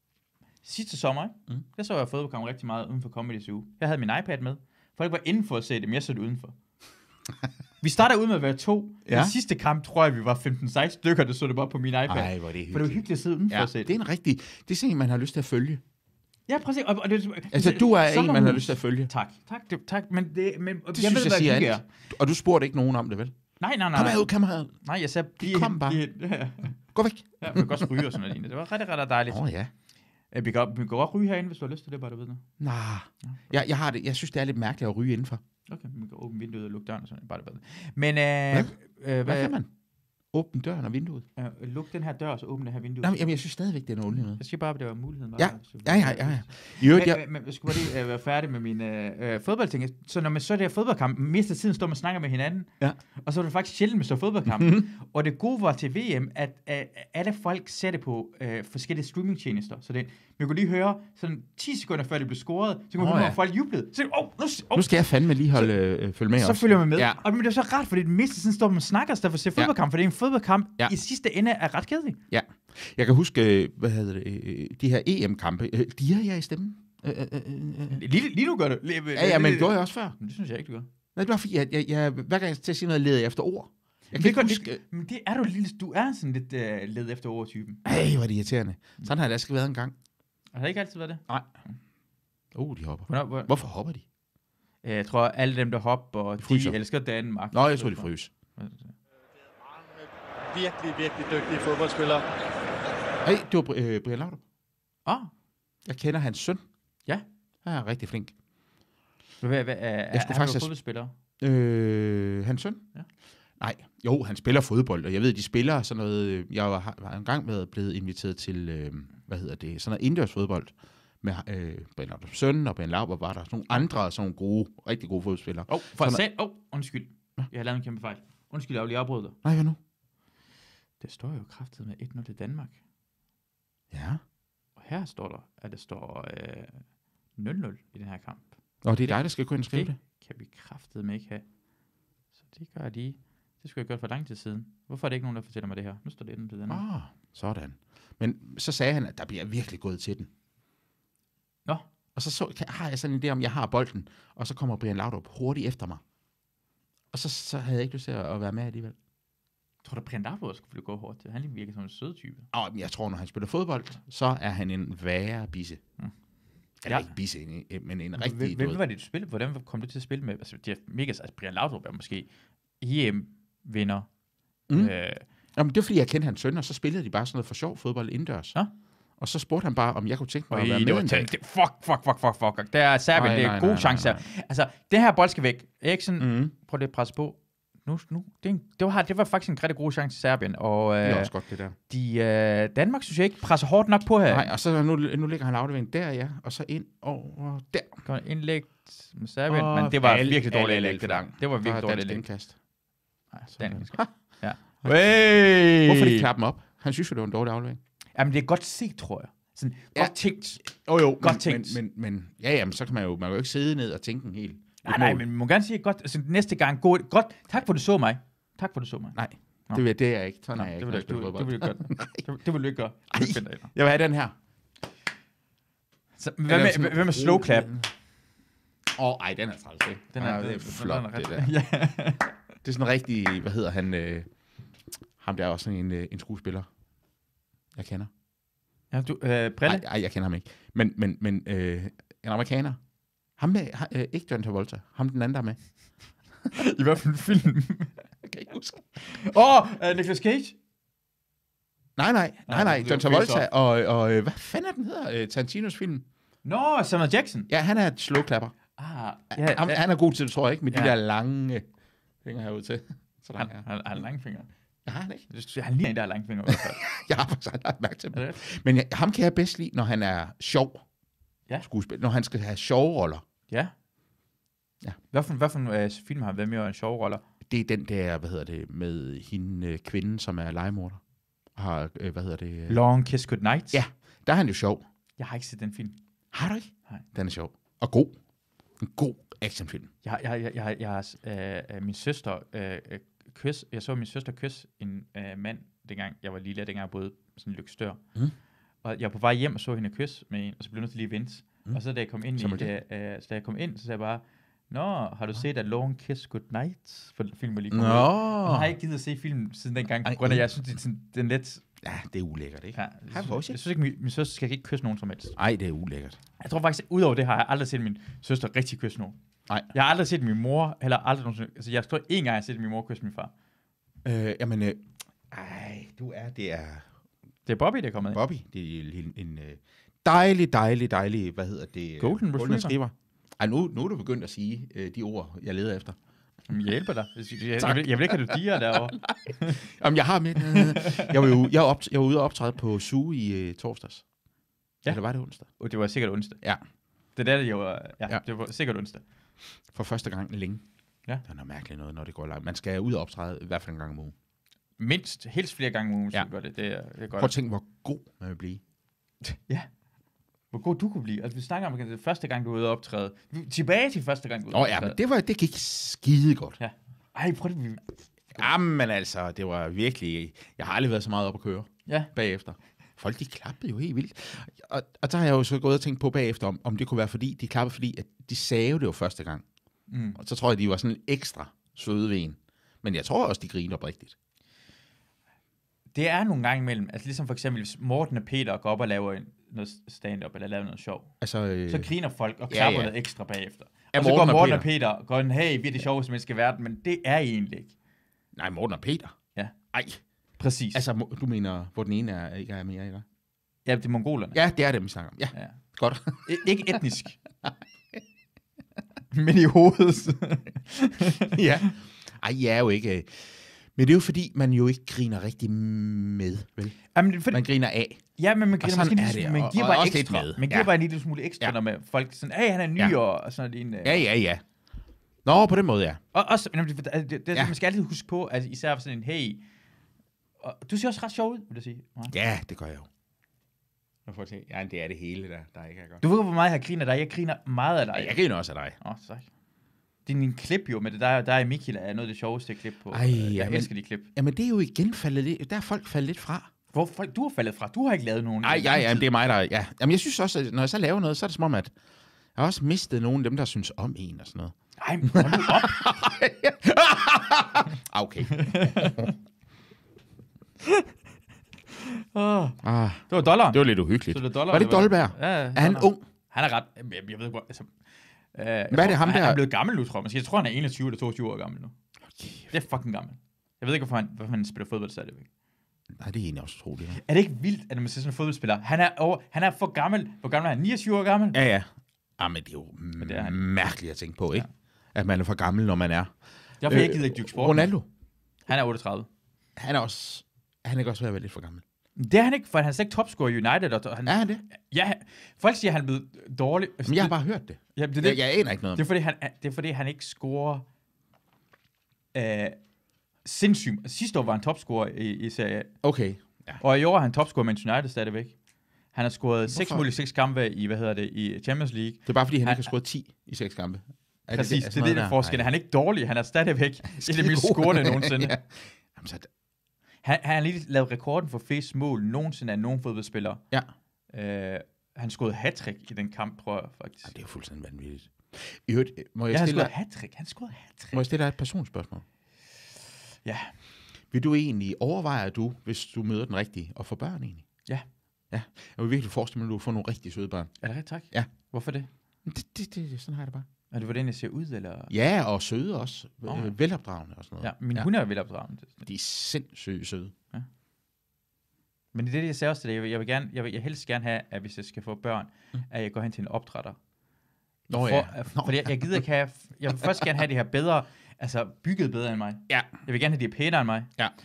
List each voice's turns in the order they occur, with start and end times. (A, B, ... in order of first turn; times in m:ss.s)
0:00.6-0:06.6 A
0:07.8-0:13.9 A
0:09.1-0:09.4 B
0:12.1-0:15.8 B
0:16.5-0:21.8 A
0:17.5-0:19.1 B
0:20.9-0:23.3 B
0:23.6-0:24.3 A
0:23.9-0:24.7 B
0:24.8-0:26.8 A
0:25.4-0:26.0 B
0:26.9-0:28.1 B
0:27.4-0:29.5 A
0:29.3-0:29.7 B
0:30.3-0:32.4 A
0:32.6-0:35.4 B
0:35.7-0:39.6 A
0:39.2-0:39.7 B
0:40.3-0:41.2 B
0:41.4-0:43.2 A
0:43.0-0:44.4 B
0:44.4-1:05.7 A
0:45.4-0:47.9 B
0:54.6-0:54.8 B
1:03.0-1:03.4 B
1:04.7-1:07.2 B
1:06.4-1:12.2 A
1:12.3-1:18.0 B
1:17.9-1:20.9 A
1:19.1-1:20.2 B
1:21.2-1:24.8 B
1:24.1-1:27.8 A
1:27.8-1:29.9 B
1:30.6-1:31.2 A
1:32.5-1:34.0 B
1:33.1-1:33.5 A
1:34.8-1:38.9 A
1:36.4-1:36.8 B
1:37.5-1:38.3 B
1:39.6-1:42.3 C
1:43.2-1:44.4 B
1:45.1-1:45.3 A
1:45.8-1:46.6 B
1:47.6-1:48.3 B
1:49.4-1:51.1 A
1:50.1-1:50.7 B
1:51.4-1:52.8 B
1:53.6-2:06.2 B
2:05.7-2:09.4 A
2:09.4-2:09.8 B
2:11.0-2:12.8 A
2:13.9-2:14.2 B
2:14.8-2:16.8 A
2:17.4-2:18.5 A
2:18.8-2:20.0 B
2:19.0-2:21.4 A
2:22.5-2:26.8 A
2:26.7-2:30.3 B
2:32.2-2:36.0 B
2:37.1-2:39.0 B
2:39.8-2:42.5 A
2:42.5-2:45.8 B
2:46.8-2:48.8 B
2:48.2-2:52.3 A
2:52.8-2:54.1 A
2:54.7-2:54.9 B
2:54.7-2:55.2 A
2:55.6-2:58.6 B
2:59.2-3:01.3 B
3:00.5-3:11.3 A
3:03.1-3:04.2 B
3:06.2-3:06.5 B
3:11.0-3:11.8 B
3:11.9-3:14.5 A
3:14.3-3:18.0 B
3:18.0-3:22.2 A
3:19.5-3:22.6 B
3:23.3-3:26.3 A
3:23.6-3:24.1 B
3:25.8-3:27.8 B
3:28.2-3:30.6 A
3:30.0-3:35.2 B
3:31.2-3:31.8 A
3:34.8-3:39.2 A
3:39.2-3:42.2 B
3:40.6-3:43.7 A
3:43.1-3:44.3 B
3:46.2-3:47.7 A
3:46.5-3:47.9 B
3:49.0-3:51.5 B
3:50.1-3:52.3 A
3:52.6-3:54.3 B
3:55.2-3:56.7 B
3:57.8-3:58.1 B
3:58.9-3:59.8 A
3:59.7-4:02.8 B
4:03.4-4:05.6 B
4:06.5-4:08.0 A
4:08.2-4:08.9 B
4:09.0-4:10.6 A
4:12.0-4:16.0 B
4:12.5-4:13.5 A
4:16.4-4:17.5 A
4:17.5-4:18.5 B
4:18.8-4:19.8 A
4:19.3-4:21.7 B
4:22.2-4:23.7 B
4:23.4-4:24.5 A
4:24.9-4:25.3 B
4:25.3-4:26.8 A
4:26.5-4:30.8 B
4:28.1-4:28.4 A
4:31.6-4:33.2 B
4:35.1-4:37.2 A
4:37.5-4:41.0 B
4:41.6-4:42.8 B
4:42.7-4:43.8 A
4:43.7-4:44.8 B
4:45.2-4:46.0 A
4:46.3-4:48.2 B
4:48.8-4:49.9 B
4:50.0-4:58.0 A
4:58.8-5:11.6 A
5:02.4-5:02.7 B
5:07.7-5:08.8 B
5:10.0-5:10.5 B
5:11.8-5:13.6 B
5:12.7-5:15.4 A
5:15.4-5:16.2 B
5:16.4-5:19.2 A
5:19.7-5:23.3 A
5:24.0-5:26.9 B
5:27.5-5:28.2 A
5:28.1-5:36.0 B
5:32.0-5:32.8 A
5:36.5-5:39.6 A
5:37.6-5:44.0 B
5:40.4-5:41.4 A
5:44.9-5:45.5 B
5:45.6-5:46.4 A
5:47.2-5:49.0 A
5:49.7-5:50.6 B
5:51.3-5:54.1 B
5:54.8-5:57.3 A
5:57.2-5:58.6 B
6:00.5-6:05.0 A
6:04.5-6:06.6 B
6:06.6-6:07.9 A
6:08.4-6:19.4 B
6:19.9-6:20.2 A
6:20.2-6:24.2 B
6:25.9-6:31.1 A
6:31.2-6:31.9 B
6:31.7-6:37.7 A
6:32.5-6:32.9 B
6:33.9-6:34.7 B
6:38.4-6:39.2 B
6:39.7-6:40.0 B
6:40.4-6:40.8 A
6:40.7-6:43.0 B
6:43.6-6:44.4 A
6:44.3-6:46.8 B
6:46.2-6:47.2 A
6:47.4-6:48.0 B
6:49.1-6:51.7 A
6:51.2-6:56.8 B
6:56.9-6:57.4 A
6:57.3-6:58.0 B
6:58.2-7:04.1 A
6:58.6-7:00.7 B
7:03.8-7:04.4 B
7:05.2-7:06.0 B
7:06.1-7:09.4 A
7:10.4-7:12.2 A
7:12.1-7:12.9 B
7:14.1-7:16.0 B
7:16.0-7:18.2 A
7:17.9-7:18.8 B
7:18.8-7:19.3 A
7:20.1-7:24.1 A
7:22.9-7:26.5 B
7:26.7-7:29.1 A
7:28.4-7:31.7 B
7:32.4-7:34.5 B
7:34.8-7:35.8 A
7:35.1-7:39.1 B
7:38.3-7:39.2 A
7:41.8-7:47.7 A
7:42.6-7:46.0 B
7:48.4-7:51.7 A
7:48.7-7:49.4 B
7:52.1-7:52.5 B
7:52.5-7:55.3 A
7:56.0-7:57.0 B
7:56.9-8:01.4 A
8:01.3-8:06.1 B
8:03.0-8:03.4 A
8:06.6-8:07.7 A
8:06.6-8:07.9 B
8:08.5-8:09.1 A
8:09.6-8:11.6 B
8:12.0-8:17.2 A
8:14.1-8:14.4 B
8:16.8-8:18.9 B
8:17.8-8:18.2 A
8:18.8-8:20.6 A
8:22.1-8:22.6 A
8:23.2-8:25.7 A
8:25.8-8:26.6 B
8:26.6-8:28.3 A
8:28.9-8:32.7 A
8:29.5-8:29.9 B
8:32.1-8:35.5 B
8:34.3-8:38.3 A
8:36.9-8:39.3 B
8:40.0-8:43.4 A
8:44.1-8:47.1 A
8:47.0-8:49.7 B
8:49.3-8:51.0 A
8:50.9-8:52.0 B
8:53.2-8:53.5 A
8:54.1-8:57.5 B
8:58.3-9:00.5 B
9:00.6-9:01.9 A
9:02.2-9:03.5 B
9:03.7-9:04.9 A
9:04.9-9:07.9 B
9:06.3-9:06.5 A
9:07.4-9:08.9 A
9:08.8-9:10.1 B
9:11.9-9:16.8 A
9:17.7-9:19.0 B
9:17.7-9:23.9 A